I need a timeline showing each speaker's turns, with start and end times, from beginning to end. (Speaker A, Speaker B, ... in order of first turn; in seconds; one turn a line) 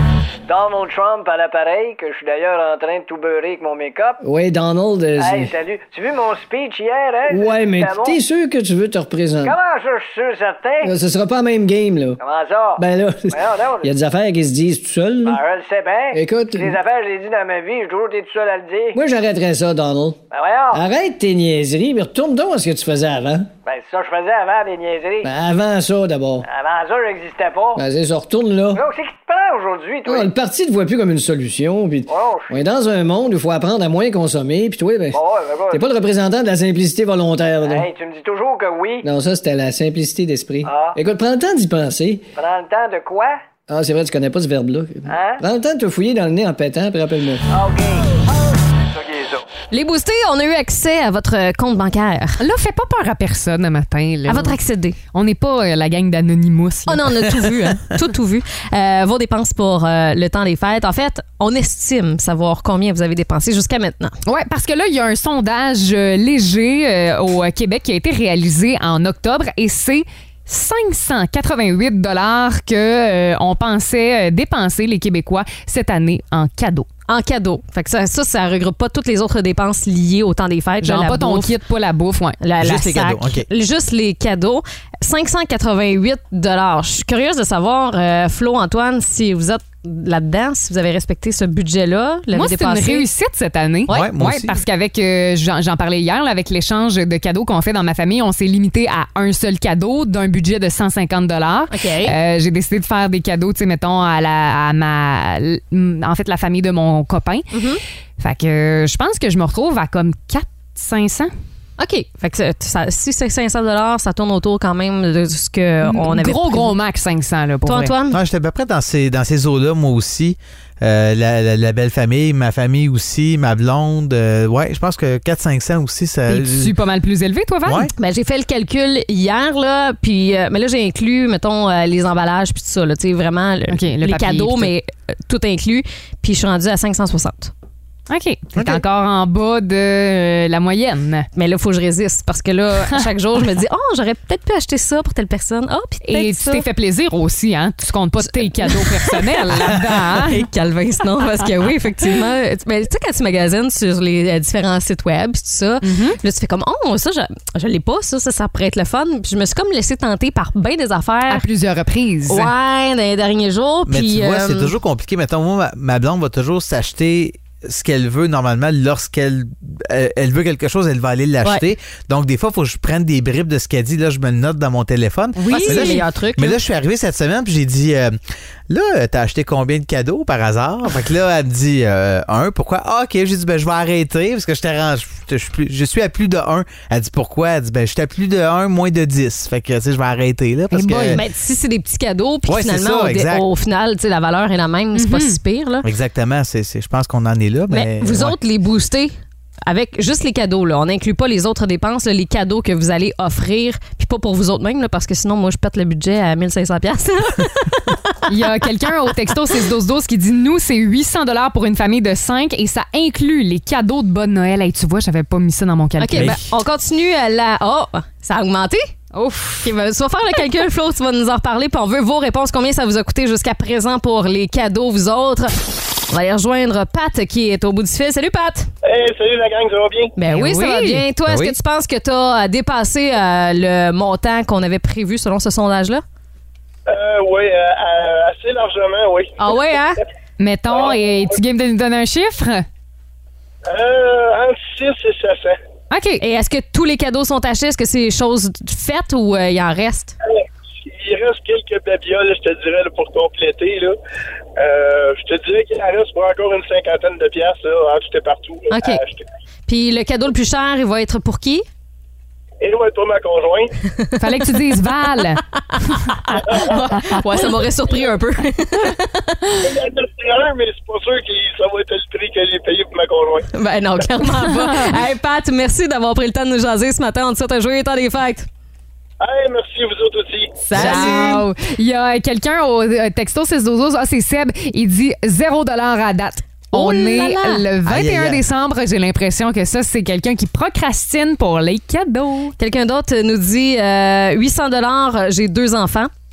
Speaker A: 0.5-4.2
Speaker B: 4.2-5.5
Speaker A: 5.2-8.2
Speaker B: 7.3-9.5
Speaker A: 9.4-10.9
Speaker B: 10.8-12.2
Speaker A: 12.2-13.9
Speaker B: 12.8-15.4
Speaker A: 15.2-19.0
Speaker B: 16.1-16.8
Speaker B: 18.9-20.2
Speaker A: 20.3-20.8
Speaker B: 20.7-23.5
Speaker A: 23.6-25.3
Speaker B: 25.2-26.4
Speaker A: 26.4-27.8
Speaker B: 27.8-28.8
Speaker A: 28.7-30.3
Speaker B: 30.1-35.2
Speaker A: 32.1-32.6
Speaker A: 35.1-35.9
Speaker B: 35.7-37.9
Speaker A: 37.6-39.0
Speaker B: 39.0-42.2
Speaker A: 40.6-41.0
Speaker A: 42.4-43.4
Speaker B: 43.7-47.4
Speaker A: 45.0-45.4
Speaker A: 47.5-48.1
Speaker A: 48.8-49.4
Speaker C: 49.7-52.4
Speaker D: 52.4-54.6
Speaker C: 54.3-55.0
Speaker D: 55.1-57.1
Speaker C: 56.9-64.2
Speaker D: 64.2-76.9
Speaker C: 77.1-81.5
Speaker D: 80.8-82.4
Speaker C: 82.4-93.1
Speaker E: 82.6-83.5
Speaker D: 92.3-107.5
Speaker E: 93.9-94.6
Speaker C: 101.7-102.2
Speaker C: 107.5-107.8
Speaker D: 108.2-111.3
Speaker C: 111.8-116.7
Speaker D: 115.8-118.0
Speaker C: 117.6-118.2
Speaker E: 118.1-126.7
Speaker D: 126.3-127.9
Speaker E: 127.7-127.9
Speaker C: 127.9-137.5
Speaker D: 133.7-134.7
Speaker D: 138.1-141.3
Speaker E: 138.6-138.8
Speaker C: 141.3-146.6
Speaker D: 146.0-150.4
Speaker C: 148.3-161.4
Speaker D: 155.8-156.2
Speaker D: 161.3-162.5
Speaker C: 162.3-164.7
Speaker E: 163.8-178.2
Speaker D: 175.3-176.0
Speaker C: 175.5-176.6
Speaker E: 178.7-191.2
Speaker D: 190.7-191.2
Speaker C: 191.1-195.9
Speaker E: 192.5-193.4
Speaker D: 194.9-195.4
Speaker E: 195.8-198.4
Speaker C: 197.7-199.1
Speaker C: 199.7-208.2
Speaker D: 208.3-216.4
Speaker C: 216.0-218.9
Speaker E: 216.1-216.4
Speaker D: 219.1-219.7
Speaker C: 219.6-228.7
Speaker F: 228.8-230.1
Speaker C: 230.2-236.0
Speaker D: 230.3-231.0
Speaker E: 231.3-231.6
Speaker F: 236.9-239.6
Speaker C: 239.4-240.0
Speaker D: 240.4-242.7
Speaker F: 240.7-241.0
Speaker F: 243.7-245.6
Speaker D: 245.9-246.2
Speaker C: 246.2-250.1
Speaker F: 250.2-254.0
Speaker F: 254.6-259.2
Speaker C: 258.7-259.0
Speaker C: 259.7-261.7
Speaker F: 262.6-263.7
Speaker D: 264.2-265.4
Speaker C: 265.5-269.5
Speaker F: 269.6-274.0
Speaker C: 273.5-278.5
Speaker F: 279.2-280.6
Speaker C: 280.6-281.4
Speaker D: 280.7-292.6
Speaker E: 280.7-281.4
Speaker C: 286.7-287.6
Speaker E: 287.8-288.4
Speaker C: 292.6-296.1